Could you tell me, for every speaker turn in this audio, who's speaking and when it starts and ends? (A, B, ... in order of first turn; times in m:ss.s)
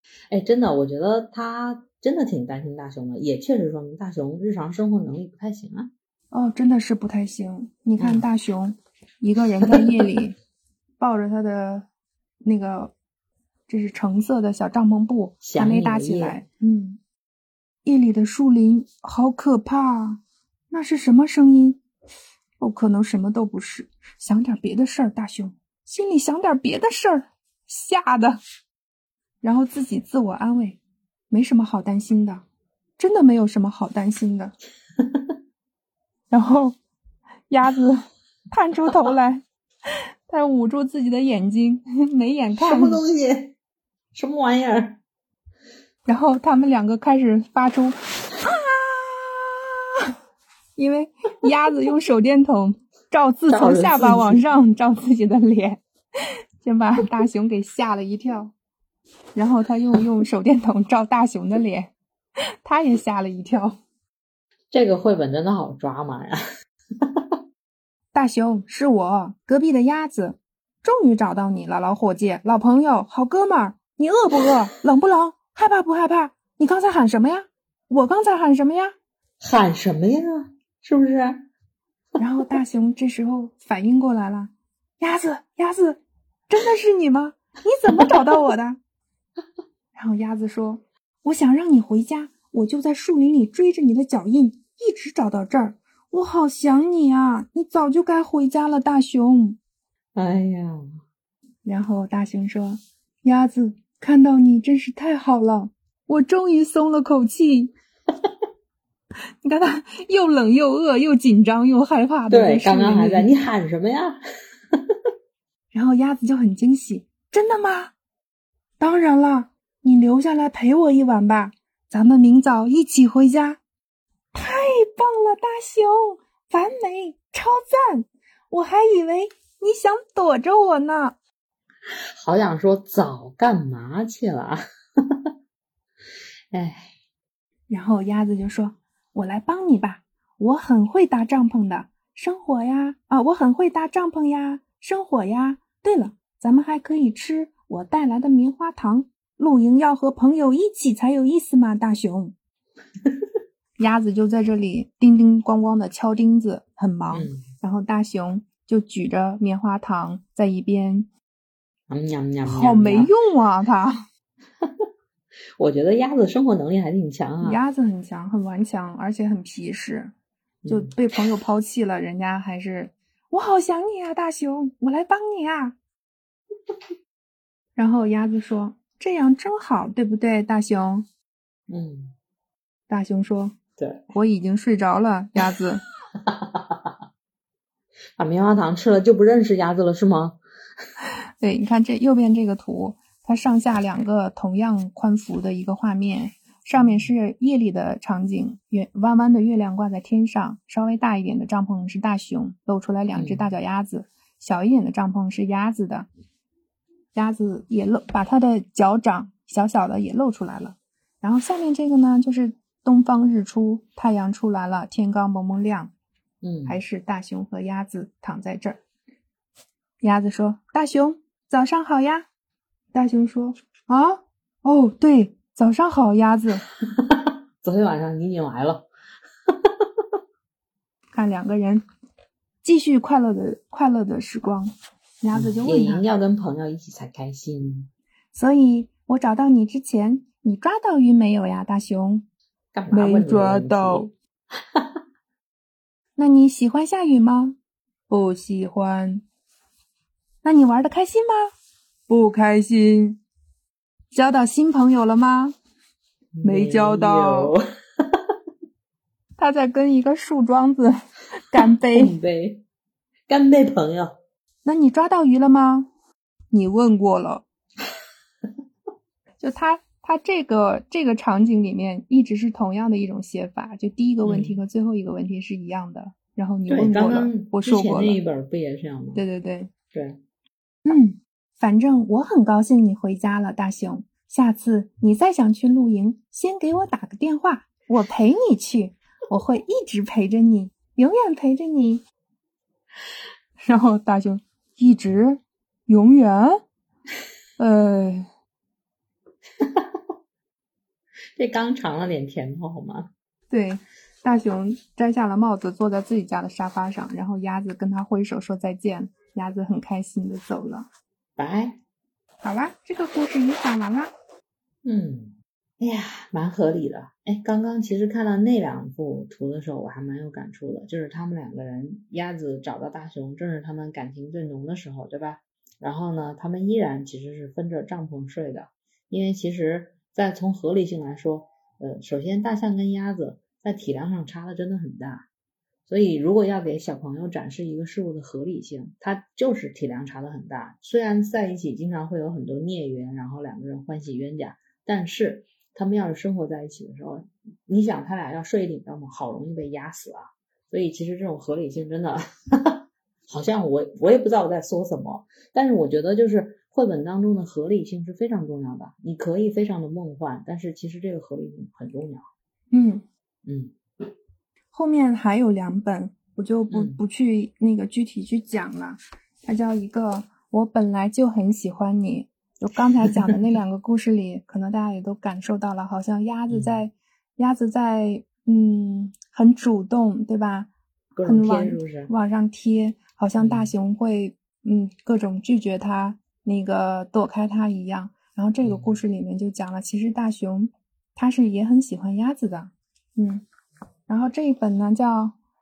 0:00.3-0:05.9 A
0:06.3-0:10.4 B
0:08.0-0:08.3 A
0:11.0-0:11.9 B
0:12.4-0:12.9 B
0:13.7-0:17.0 B
0:15.4-0:16.4 A
0:17.8-0:21.8 B
0:22.6-0:28.4 B
0:29.4-0:32.4 B
0:33.0-0:34.5 B
0:35.0-0:35.3 A
0:36.3-0:36.8 B
0:37.5-0:43.0 B
0:42.6-0:43.5 A
0:44.1-0:45.0 A
0:46.1-0:49.6 B
0:50.8-0:55.8 B
0:53.5-0:54.4 A
0:56.6-0:58.5 B
0:59.4-1:01.9 B
1:02.6-1:03.8 B
1:04.7-1:06.4 A
1:07.0-1:07.4 A
1:08.1-1:18.9 B
1:19.4-1:21.4 A
1:22.2-1:28.8 B
1:28.0-1:28.4 A
1:30.0-1:39.6 B
1:40.2-1:41.0 A
1:41.6-1:47.7 B
1:49.4-1:53.3 B
1:52.3-1:54.2 A
1:54.7-1:55.0 A
1:55.7-1:57.9 B
1:58.8-2:03.6 B
2:04.3-2:11.2 B
2:12.2-2:15.3 A
2:16.5-2:16.9 A
2:17.7-2:32.3 B
2:33.8-2:41.1 B
2:37.1-2:37.4 A
2:41.9-2:43.1 A
2:42.4-2:44.0 B
2:44.6-2:44.9 A
2:45.6-2:47.6 A
2:47.4-2:50.1 B
2:50.6-2:50.9 A
2:50.7-2:55.8 B
2:57.8-3:01.1 B
3:01.7-3:02.1 A
3:02.9-3:03.6 B
3:03.8-3:04.0 A
3:04.1-3:05.8 B
3:06.2-3:07.0 A
3:08.2-3:10.4 A
3:11.4-3:26.1 B
3:16.8-3:17.1 A
3:23.2-3:23.5 A
3:27.2-3:35.9 B
3:36.4-3:36.8 A
3:36.7-3:38.8 B
3:40.0-3:42.2 B
3:42.9-3:46.6 B
3:46.8-3:48.9 A
3:49.5-3:50.0 A
3:51.1-3:51.8 B
3:52.6-3:56.0 B
3:55.3-3:57.9 A
3:58.3-4:02.3 B
4:02.7-4:04.1 A
4:02.9-4:04.1 B
4:06.2-4:07.6 B
4:08.1-4:09.2 B
4:10.4-4:11.5 B
4:12.1-4:13.2 B
4:14.1-4:15.6 B
4:16.3-4:18.3 A
4:16.4-4:17.6 B
4:19.4-4:22.2 B
4:21.9-4:22.6 A
4:23.3-4:24.1 A
4:24.6-4:25.9 B
4:26.5-4:27.4 B
4:29.4-4:38.2 B
4:34.2-4:34.6 A
4:36.7-4:39.2 A
4:39.2-4:39.7 B
4:39.9-4:40.2 A
4:40.9-4:52.0 B
4:53.6-4:56.6 B
4:57.6-4:58.3 B
4:59.6-5:00.0 A
5:01.4-5:03.1 A
5:03.5-5:10.9 B
5:11.4-5:11.8 A
5:12.4-5:14.1 B
5:14.8-5:35.2 A
5:35.9-6:02.2 A
6:02.7-6:03.0 B
6:03.4-6:03.8 A
6:04.7-6:20.7 B
6:06.7-6:07.0 A
6:16.5-6:16.8 A
6:21.2-6:22.1 A
6:21.2-6:33.4 B
6:23.4-6:23.7 A
6:28.6-6:29.0 A
6:34.1-6:35.4 B